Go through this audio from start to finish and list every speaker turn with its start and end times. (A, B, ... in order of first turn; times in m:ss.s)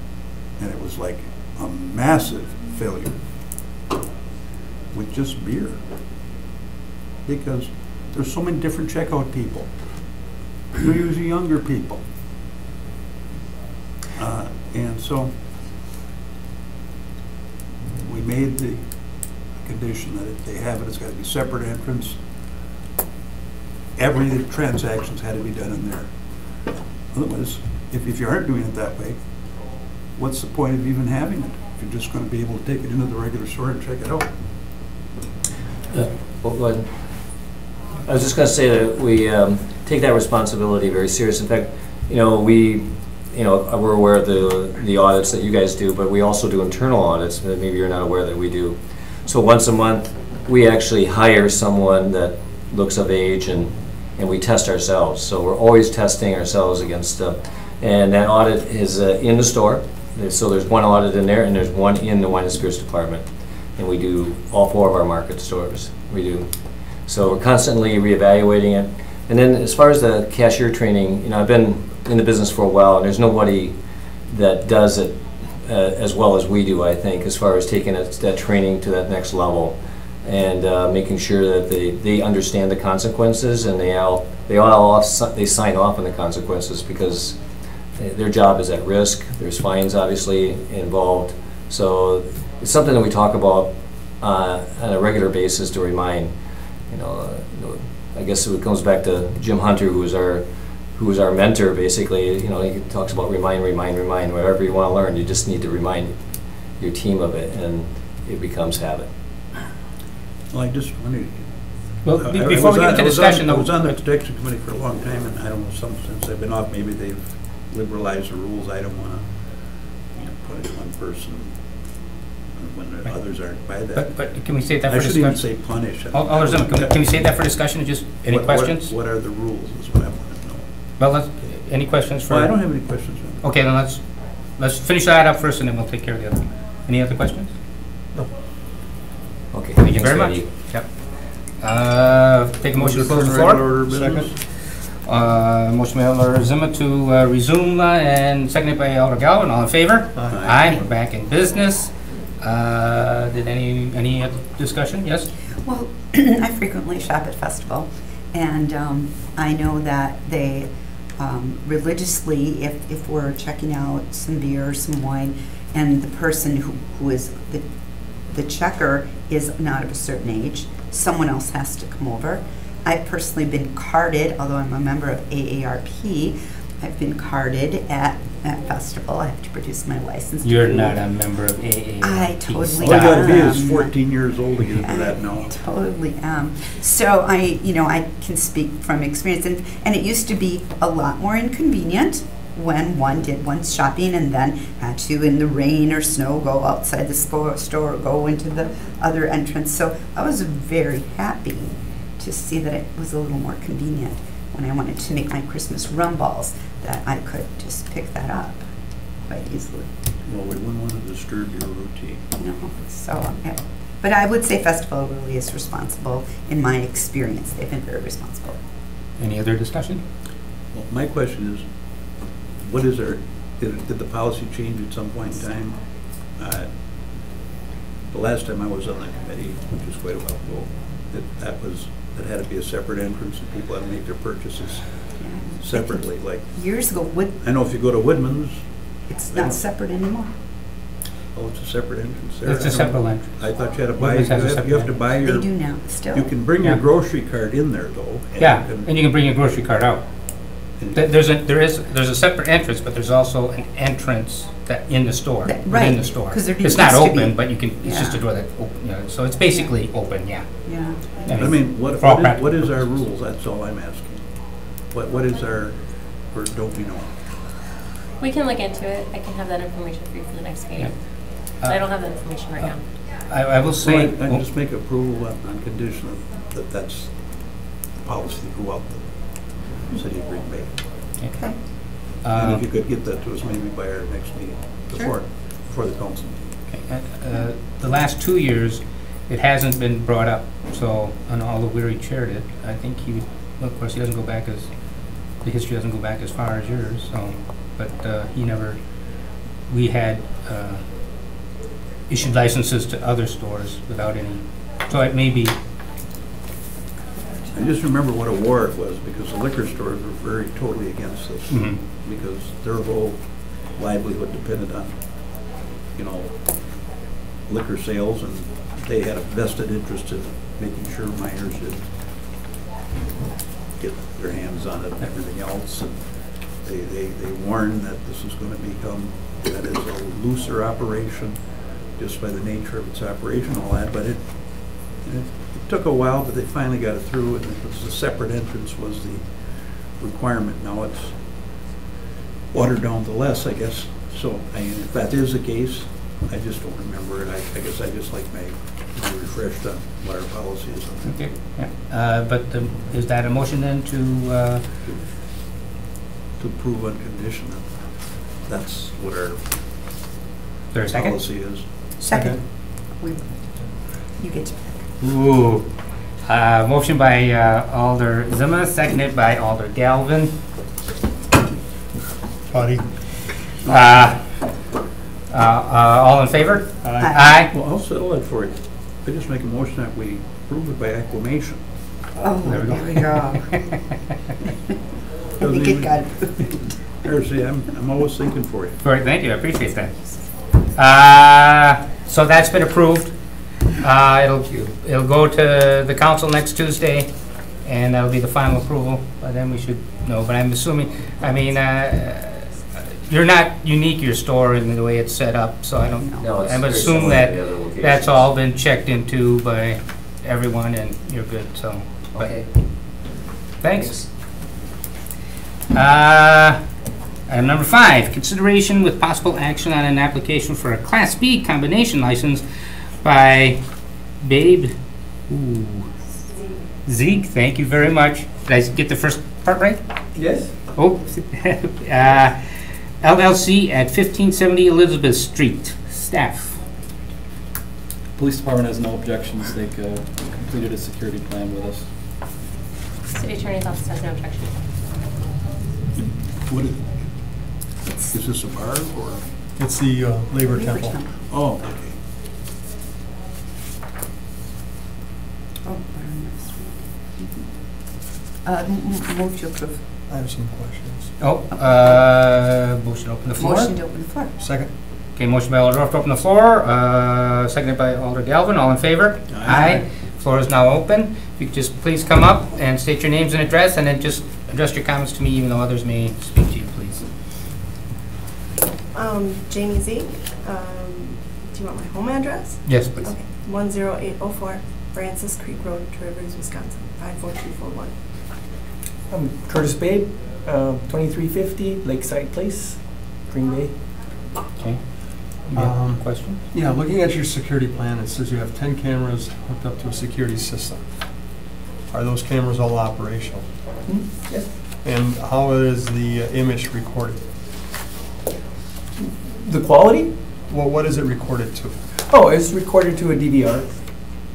0:00.5-0:03.2 A
0:04.9-0:05.8 A
0:07.2-0:10.1 A
0:10.8-0:12.0 A
0:14.2-0:15.4 A
0:18.0-0:22.3 A
0:24.0-0:34.3 A
0:35.9-0:37.5 B
0:38.0-1:27.4 B
1:28.0-1:36.3 B
1:36.9-1:49.1 B
1:50.5-1:51.5 A
1:52.0-2:01.6 A
1:52.0-1:54.0 C
2:02.5-2:04.3 A
2:03.9-2:08.9 C
2:04.8-2:06.9 A
2:08.3-2:10.7 A
2:11.0-2:12.6 C
2:12.3-2:13.5 A
2:13.4-2:14.0 C
2:14.6-2:17.5 C
2:19.5-2:20.5 B
2:19.8-2:24.0 C
2:22.7-2:24.4 A
2:23.3-2:24.3 D
2:24.9-2:35.3 C
2:30.1-2:30.8 D
2:30.3-2:30.8 A
2:35.6-2:47.7 E
2:48.2-3:01.0 E
3:00.4-3:03.4 C
3:02.0-3:03.9 E
3:02.8-3:05.5 A
3:04.8-3:28.7 E
3:29.2-3:29.9 E
3:30.2-3:32.2 A
3:32.4-3:38.6 E
3:39.2-3:40.0 C
3:40.7-3:41.7 A
3:42.6-3:46.7 A
3:48.1-3:56.5 A
3:55.2-3:57.3 E
3:57.4-3:58.7 A
3:59.1-4:00.3 E
3:59.3-3:59.6 A
4:01.3-4:05.5 A
4:02.4-4:05.0 C
4:05.2-4:06.3 E
4:06.1-4:08.9 A
4:08.4-4:10.3 C
4:10.8-4:11.1 A
4:10.9-4:20.7 C
4:15.4-4:18.2 E
4:20.6-4:21.5 E
4:21.2-4:22.9 C
4:21.3-4:27.1 A
4:28.2-4:32.9 F
4:30.8-4:34.4 C
4:33.7-4:40.8 A
4:41.2-4:42.6 C
4:41.3-4:41.6 E
4:42.3-4:46.6 A
4:46.7-4:59.1 C
4:59.7-5:00.8 C
5:02.1-5:05.5 C
5:07.1-5:07.5 E
5:07.5-5:16.9 A
5:11.5-5:11.8 C
5:17.4-5:21.9 A
5:23.8-5:41.5 A
5:42.5-5:51.4 A
5:51.0-5:54.6 C
5:56.4-5:59.5 A
6:00.7-6:01.2 C
6:00.9-6:01.6 A
6:02.0-6:04.9 E
6:02.1-6:02.4 D
6:05.0-6:05.7 C
6:06.2-6:10.3 C
6:12.5-6:13.2 D
6:13.6-6:14.6 C
6:15.3-6:17.5 C
6:16.8-6:17.2 D
6:17.0-6:17.4 E
6:17.4-6:21.7 A
6:22.2-6:23.7 E
6:22.4-6:23.6 C
6:25.4-6:28.8 A
6:25.4-6:26.5 E
6:28.8-6:30.1 C
6:30.7-6:52.4 C
6:45.8-6:46.4 E
6:46.2-6:48.3 B
6:52.1-6:52.5 B
6:53.6-6:54.0 C
6:53.7-6:54.0 B
6:55.7-6:56.6 C
6:57.3-7:02.4 C
7:03.0-7:03.6 C
7:04.2-7:04.8 C
7:05.3-7:05.9 C
7:06.8-7:09.8 C
7:10.1-7:10.5 G
7:10.7-7:16.6 C
7:18.1-7:21.9 H
7:23.1-7:24.6 F
7:25.9-7:27.4 A
7:27.8-7:28.2 E
7:28.1-7:29.2 A
7:29.6-7:31.0 D
7:30.4-7:31.1 E
7:31.3-7:32.0 A
7:35.6-7:39.8 E
7:40.1-7:41.1 D
7:41.2-7:43.7 C
7:41.5-7:42.0 E
7:43.4-7:44.3 E
7:44.4-7:44.7 D
7:45.1-7:57.1 C
7:49.3-7:49.8 A
7:58.9-8:08.0 I
8:02.6-8:03.2 C
8:09.1-8:14.0 G
8:14.6-8:16.4 C
8:15.4-8:23.5 D
8:23.8-8:24.6 G
8:24.8-8:27.2 D
8:29.0-8:30.4 G
8:30.5-8:31.8 D
8:32.0-8:33.8 G